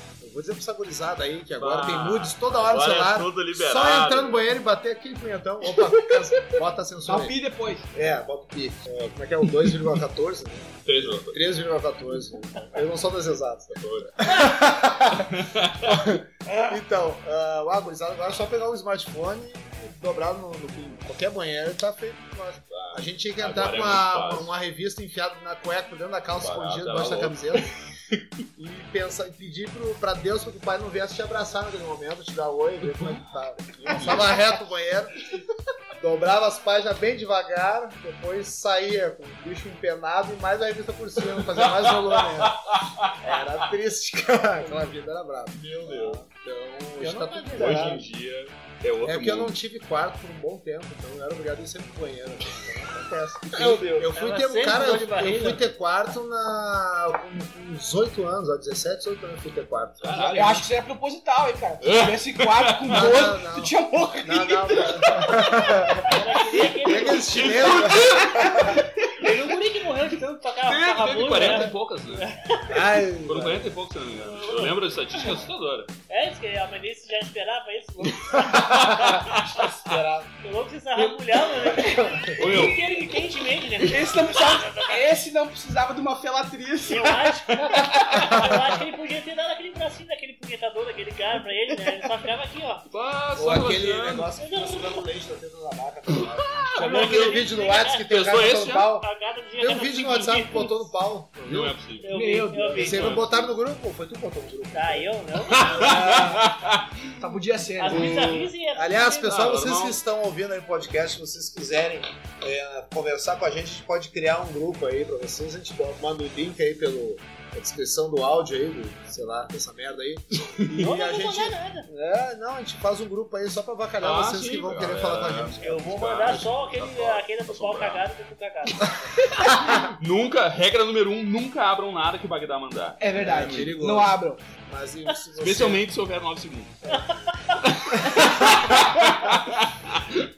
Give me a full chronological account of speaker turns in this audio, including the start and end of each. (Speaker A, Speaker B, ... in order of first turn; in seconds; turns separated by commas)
Speaker A: 0.2-7.4, Speaker B: 1.6-4.4, Speaker C: 7.0-7.9, Speaker A: 7.9-27.7, Speaker B: 10.8-11.4, Speaker B: 13.7-14.5, Speaker B: 15.1-16.2, Speaker B: 22.7-24.5, Speaker B: 26.3-28.2, Speaker A: 28.6-35.1, Speaker B: 32.8-34.4, Speaker A: 36.0-42.6, Speaker B: 41.4-43.5, Speaker A: 43.2-48.0, Speaker B: 45.5-46.2, Speaker D: 47.0-48.0, Speaker B: 47.6-49.6, Speaker A: 49.0-60.5, Speaker D: 53.5-55.6, Speaker B: 60.0-60.7, Speaker C: 60.3-65.5, Speaker B: 61.8-63.2, Speaker A: 62.9-66.2, Speaker D: 66.1-67.8, Speaker A: 66.8-68.8, Speaker B: 66.9-68.8, Speaker C: 67.9-69.3, Speaker D: 69.2-72.8, Speaker B: 70.6-72.3, Speaker A: 71.4-71.7, Speaker A: 72.7-73.8, Speaker B: 73.2-75.9, Speaker D: 74.2-74.8, Speaker D: 76.1-79.0, Speaker A: 78.3-80.3, Speaker B: 78.5-79.6, Speaker D: 80.4-85.0, Speaker C: 81.0-82.8, Speaker A: 81.9-82.4, Speaker B: 82.4-83.0, Speaker C: 83.8-88.5, Speaker D: 86.9-92.8, Speaker B: 92.9-94.3, Speaker A: 93.4-99.1, Speaker D: 94.4-95.0, Speaker B: 96.2-97.4, Speaker D: 96.8-98.3, Speaker B: 98.1-98.9, Speaker D: 98.9-100.9, Speaker A: 99.6-101.8, Speaker B: 101.4-102.2, Speaker D: 102.0-103.2, Speaker C: 102.1-103.2, Speaker A: 102.8-106.4, Speaker B: 102.8-103.5, Speaker D: 104.7-106.2, Speaker B: 105.5-107.1, Speaker C: 105.9-106.2, Speaker C: 107.2-108.5, Speaker D: 107.8-109.4, Speaker A: 107.9-126.4, Speaker B: 109.2-110.0, Speaker D: 120.8-121.9, Speaker B: 124.0-128.0, Speaker D: 125.6-129.6, Speaker B: 129.4-133.6, Speaker C: 133.0-134.4, Speaker A: 133.1-135.9, Speaker B: 135.4-137.0, Speaker D: 136.9-137.6, Speaker B: 137.6-140.1, Speaker A: 138.0-138.5